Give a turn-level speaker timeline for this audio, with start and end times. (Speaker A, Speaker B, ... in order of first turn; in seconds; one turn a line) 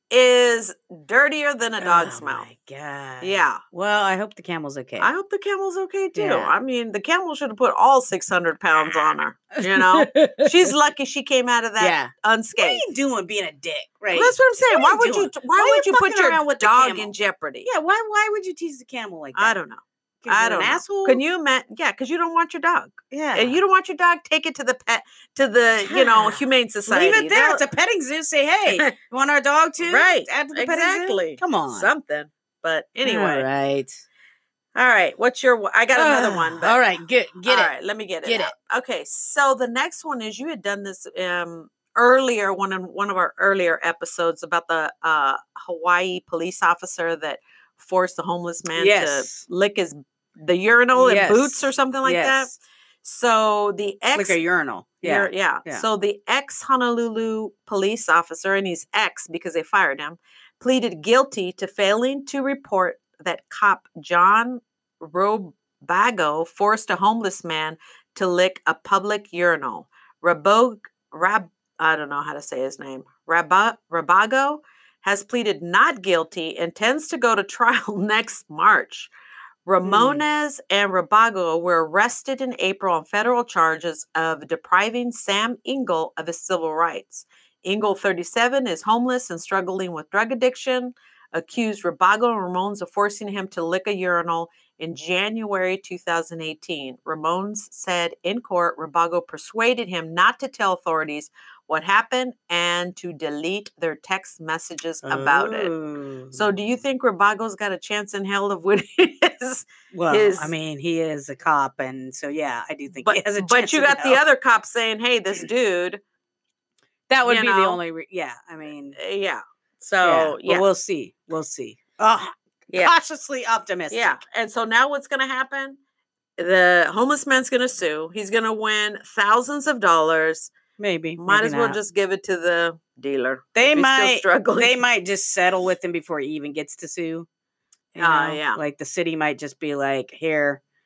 Speaker A: 0.1-2.5
Speaker B: 1.8-5.1
Speaker A: 3.2-3.6
Speaker A: 5.0-12.9
Speaker B: 6.2-6.5
Speaker B: 9.6-10.5
Speaker B: 11.8-17.1
Speaker A: 14.1-17.7
Speaker B: 17.6-19.6
Speaker A: 19.4-27.6
Speaker B: 20.2-21.2
Speaker B: 23.1-23.6
Speaker B: 25.8-31.9
Speaker A: 28.7-28.9
Speaker A: 29.8-33.5
Speaker B: 33.0-34.0
Speaker A: 34.8-36.8
Speaker B: 35.9-37.7
Speaker A: 37.5-52.5
Speaker B: 38.2-38.5
Speaker B: 48.8-49.5
Speaker B: 50.9-52.6
Speaker A: 53.0-54.4
Speaker B: 54.1-55.8
Speaker A: 55.0-79.1
Speaker A: 79.7-105.7
Speaker B: 79.8-80.2
Speaker B: 105.0-106.4
Speaker A: 106.3-110.5
Speaker B: 109.9-114.2
Speaker A: 113.0-116.0
Speaker B: 117.1-119.0
Speaker A: 117.2-117.8
Speaker A: 119.0-120.7
Speaker B: 120.0-124.2
Speaker A: 123.9-125.8
Speaker A: 126.4-130.5
Speaker B: 130.8-131.8
Speaker A: 131.2-134.8
Speaker B: 133.6-137.3
Speaker B: 137.9-140.6
Speaker A: 138.0-138.6